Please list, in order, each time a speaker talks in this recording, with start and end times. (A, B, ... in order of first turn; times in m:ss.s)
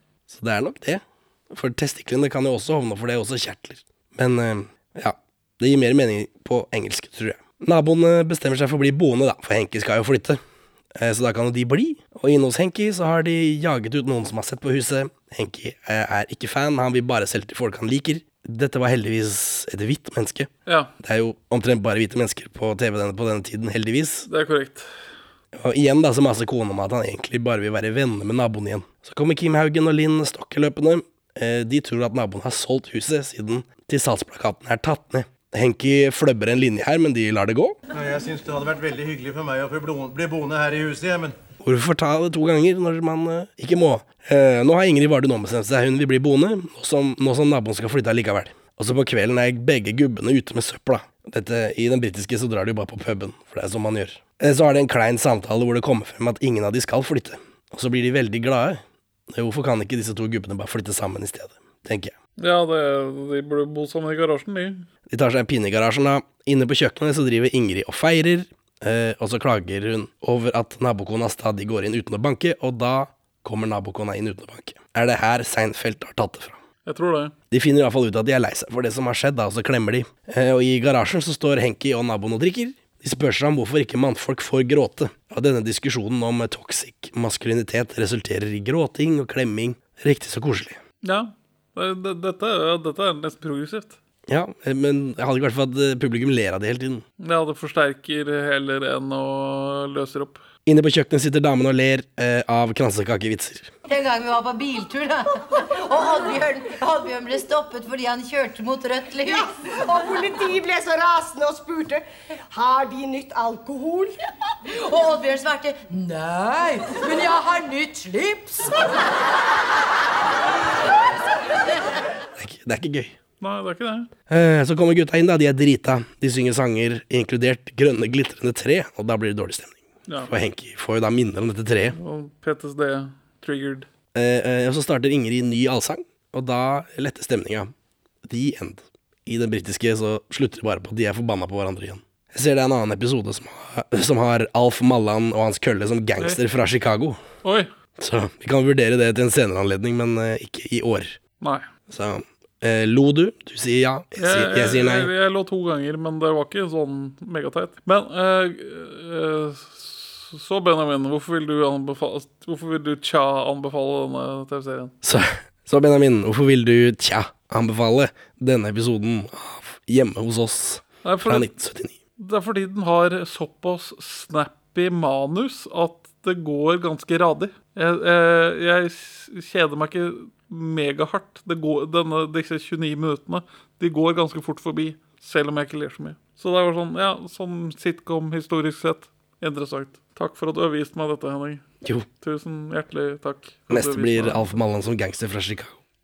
0:00.3-0:10.4 A
0:11.0-0:24.3 A
0:20.6-0:20.9 B
0:24.3-0:24.9 B
0:25.6-0:37.8 A
0:37.9-0:41.4 C
0:41.6-1:02.1 A
1:02.4-1:04.8 B
1:05.1-1:16.6 A
1:16.8-1:17.3 B
1:17.5-1:30.8 A
1:31.0-1:34.0 B
1:34.3-1:37.0 A
1:37.2-1:40.4 B
1:40.6-1:43.7 A
1:43.9-1:49.5 D
1:49.3-1:54.1 E
1:54.7-1:58.8 D
2:02.4-2:03.2 A
2:03.4-2:04.1 B
2:04.3-2:12.0 A
2:11.9-2:13.9 B
2:14.1-2:17.7 A
2:18.2-2:27.2 A
2:27.4-2:27.7 B
2:28.0-2:31.2 A
2:31.4-2:31.6 B
2:31.9-2:35.1 A
2:34.2-2:44.9 B
2:45.0-2:52.0 A
2:51.0-2:51.5 B
2:52.2-3:11.6 B
3:12.2-3:14.5 B
3:13.7-3:15.8 A